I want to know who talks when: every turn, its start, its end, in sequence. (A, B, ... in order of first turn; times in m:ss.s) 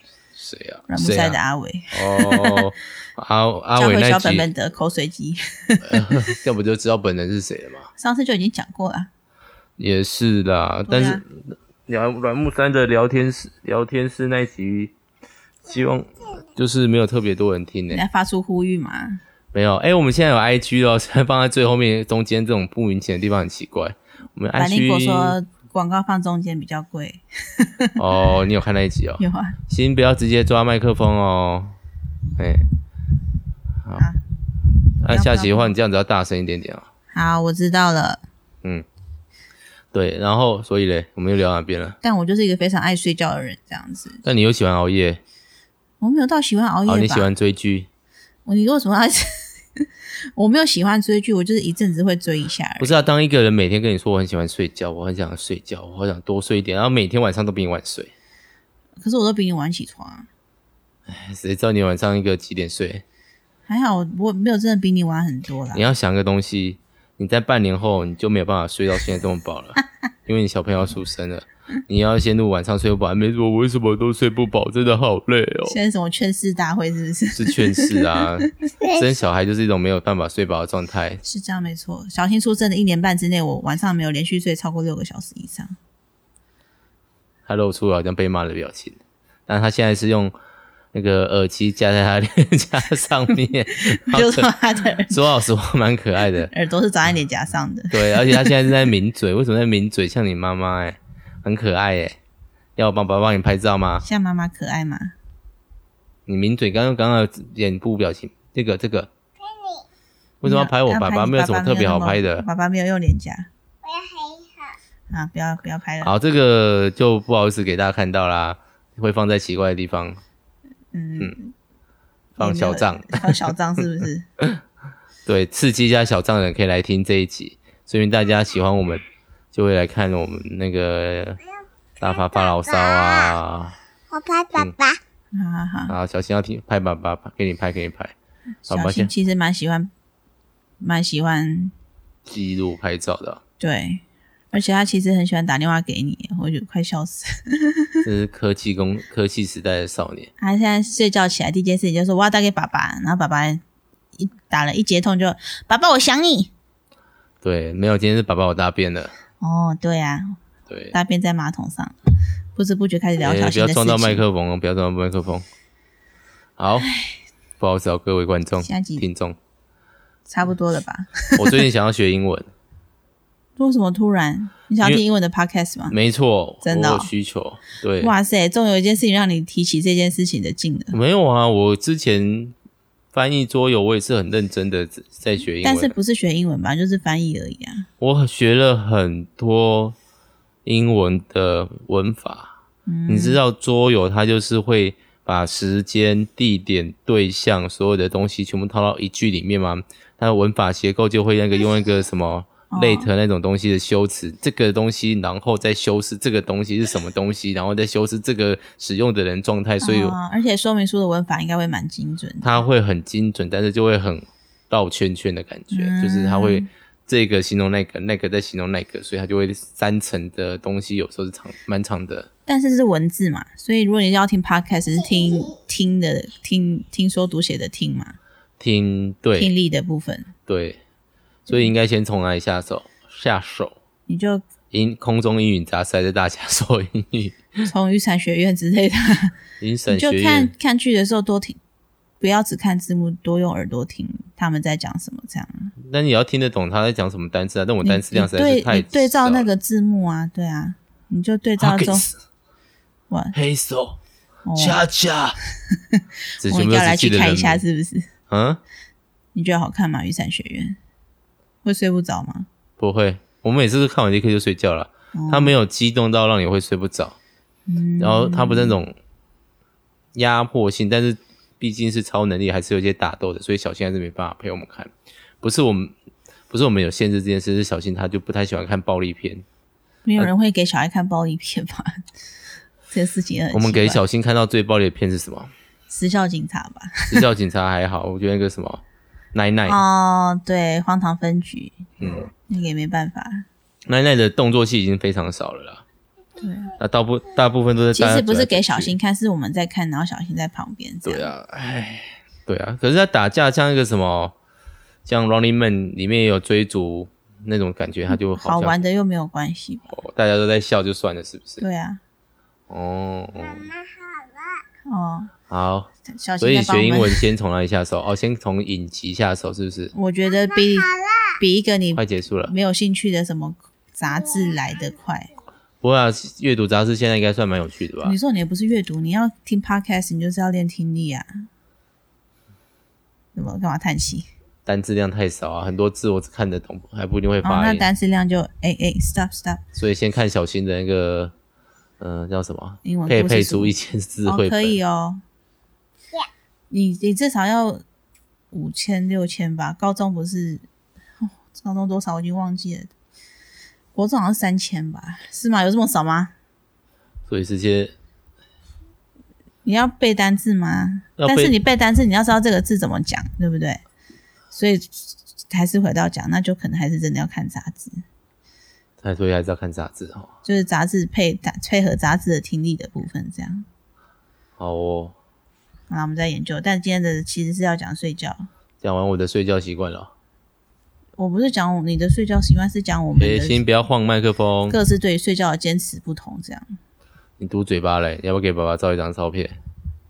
0:00.3-0:01.4 A
0:00.9-0:02.7 B
0:01.9-0:04.5 A
0:03.7-0:06.4 B
0:05.8-0:07.9 A
0:08.0-0:09.1 B
0:09.8-0:14.9 A
0:10.9-0:11.2 B
0:15.6-0:18.0 A
0:17.9-0:19.2 B
0:19.5-0:25.4 A
0:24.6-0:28.0 B
0:28.0-0:31.8 A
0:29.2-0:29.6 B
0:32.4-0:32.7 A
0:35.0-0:36.9 A
0:35.1-0:35.7 B
0:37.1-0:38.2 B
0:39.9-0:42.0 A
0:42.0-0:44.2 B
0:44.2-0:45.2 A
0:46.0-0:47.3 B
0:46.9-0:47.9 A
0:48.4-0:53.0 B
0:52.8-0:58.1 A
0:59.0-1:00.3 B
1:01.1-1:03.0 A
1:03.7-1:05.8 B
1:05.7-1:15.8 A
1:15.6-1:18.5 B
1:17.3-1:21.2 A
1:18.8-1:19.1 C
1:21.2-1:25.7 B
1:27.4-1:30.3 A
1:30.9-1:36.5 A
1:33.7-1:35.2 B
1:36.5-1:38.8 B
1:37.9-1:42.2 A
1:42.8-1:44.0 A
1:44.0-1:45.1 B
1:46.3-1:49.1 A
1:49.4-1:49.9 C
1:50.4-1:52.4 A
1:50.4-1:53.5 B
1:53.8-1:54.8 C
1:55.1-1:56.1 B
1:56.0-2:00.2 A
2:00.9-2:01.5 B
2:02.4-2:03.4 A
2:02.4-2:04.2 B
2:05.2-2:11.4 A
2:12.0-2:13.4 C
2:12.0-2:13.8 A
2:14.1-2:15.0 C
2:15.3-2:15.9 B
2:15.9-2:18.1 A
2:18.6-2:19.9 B
2:18.7-2:19.1 A
2:20.8-2:21.7 B
2:22.3-2:23.4 A
2:23.6-2:28.0 B
2:28.0-2:30.3 A
2:30.4-2:33.6 B
2:34.2-2:36.5 B
2:37.4-2:39.2 A
2:39.4-2:40.4 B
2:40.7-2:40.9 A
2:40.9-2:42.0 B
2:42.6-2:44.2 B
2:43.2-2:45.4 A
2:46.6-2:46.9 A
2:46.8-2:47.2 B
2:47.6-2:49.4 A
2:48.6-2:49.0 B
2:50.3-2:51.6 B
2:51.4-2:52.5 A
2:53.6-2:55.9 B
2:55.9-2:58.1 A
2:56.6-2:57.1 B
2:58.0-3:01.0 B
3:00.9-3:02.5 A
3:03.1-3:05.9 A
3:05.6-3:07.9 B
3:08.0-3:10.0 A
3:10.6-3:12.5 A
3:12.9-3:13.4 B
3:13.1-3:30.2 A
3:22.7-3:23.1 B
3:29.8-3:32.6 B
3:32.4-3:42.3 A
3:35.7-3:36.7 B
3:42.5-3:48.2 B
3:45.0-3:45.6 C
3:48.6-3:49.5 A
3:49.4-3:50.3 B
3:50.5-3:50.8 A
3:51.5-3:53.8 A
3:54.1-3:54.4 B
3:54.7-3:57.7 A
3:57.6-3:59.3 B
3:59.6-4:00.5 A
3:59.9-4:01.6 B
4:02.2-4:05.7 B
4:05.8-4:09.5 A
4:07.8-4:12.1 B
4:11.6-4:12.1 A
4:13.1-4:13.4 B
4:13.3-4:14.0 A
4:14.4-4:14.8 B
4:14.6-4:15.4 A
4:15.9-4:18.1 B
4:16.4-4:17.6 A
4:18.3-4:18.6 A
4:19.3-4:20.8 B
4:21.6-4:22.5 B
4:22.8-4:27.2 A
4:25.1-4:25.5 B
4:27.7-4:28.8 B
4:28.0-4:28.9 A
4:30.1-4:35.9 A
4:36.5-4:39.4 A
4:40.0-4:42.0 B
4:42.9-4:44.0 B
4:43.5-4:45.5 A
4:45.9-4:47.2 B
4:47.1-4:49.8 A
4:49.6-4:53.4 B
4:52.0-4:52.3 A
4:53.9-4:55.8 A
4:56.4-4:56.8 B
4:56.8-4:58.9 A
4:57.9-5:01.3 B
5:01.0-5:04.3 A
5:05.0-5:08.8 A
5:08.1-5:09.9 B
5:09.9-5:11.6 A
5:11.6-5:12.0 B
5:12.7-5:13.7 A
5:13.4-5:14.6 C
5:14.9-5:15.3 B
5:15.5-5:19.9 A
5:16.1-5:17.2 B
5:19.9-5:20.9 B
5:20.2-5:21.4 C
5:21.4-5:25.3 B
5:21.9-5:22.5 A
5:24.1-5:25.1 C
5:25.8-5:28.2 A
5:28.0-5:31.3 B
5:33.3-5:34.2 B
5:34.6-5:37.8 A
5:37.4-5:39.6 B
5:39.8-5:41.3 A
5:42.0-5:44.8 A
5:42.8-5:45.2 B
5:46.7-5:47.8 B
5:48.5-5:50.6 B
5:51.2-5:52.9 B
5:53.9-5:56.3 B
5:57.3-5:57.9 A
5:59.6-6:03.8 B
6:01.2-6:01.5 A
6:04.5-6:08.0 B
6:09.0-6:10.3 A
6:10.4-6:13.6 B
6:14.6-6:15.2 A
6:15.9-6:18.5 B
6:18.8-6:20.1 A
6:21.2-6:23.6 B
6:23.2-6:24.8 A
6:24.7-6:26.8 B
6:27.4-6:29.6 A